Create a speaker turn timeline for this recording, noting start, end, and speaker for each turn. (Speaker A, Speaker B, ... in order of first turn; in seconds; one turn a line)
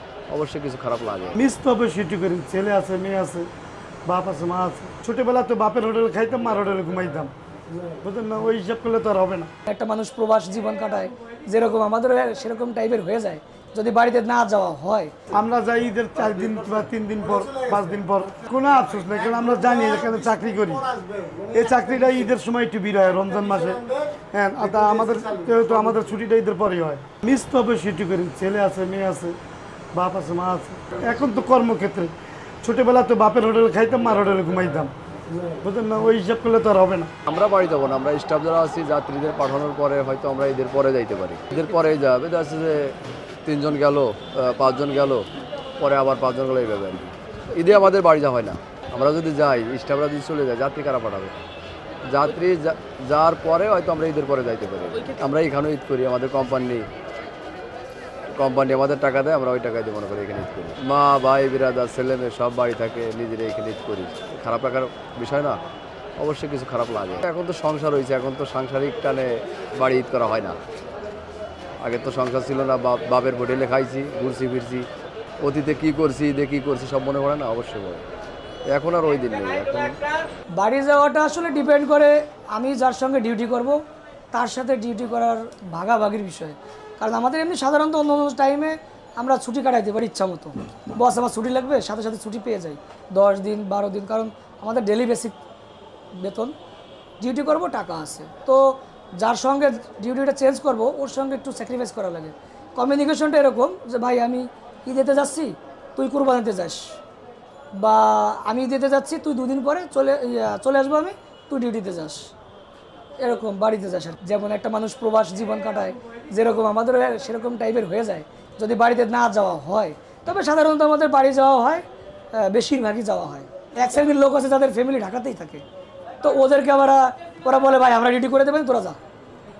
Speaker A: 0.3-1.4
Speaker B: 1.4-3.5
Speaker B: 4.1-9.5
Speaker C: 9.7-15.1
Speaker B: 15.3-29.4
Speaker B: 29.9-37.1
Speaker A: 37.3-42.9
Speaker A: 43.5-45.3
Speaker A: 45.8-51.3
Speaker A: 52.0-56.9
Speaker A: 58.4-65.6
Speaker A: 66.2-70.6
Speaker A: 71.8-74.9
Speaker A: 75.4-78.0
Speaker A: 78.7-80.0
Speaker C: 80.6-83.8
Speaker C: 84.3-95.4
Speaker C: 96.2-96.5
Speaker C: 97.2-107.0
Speaker C: 107.8-112.3
Speaker C: 113.2-125.6
Speaker C: 126.2-129.0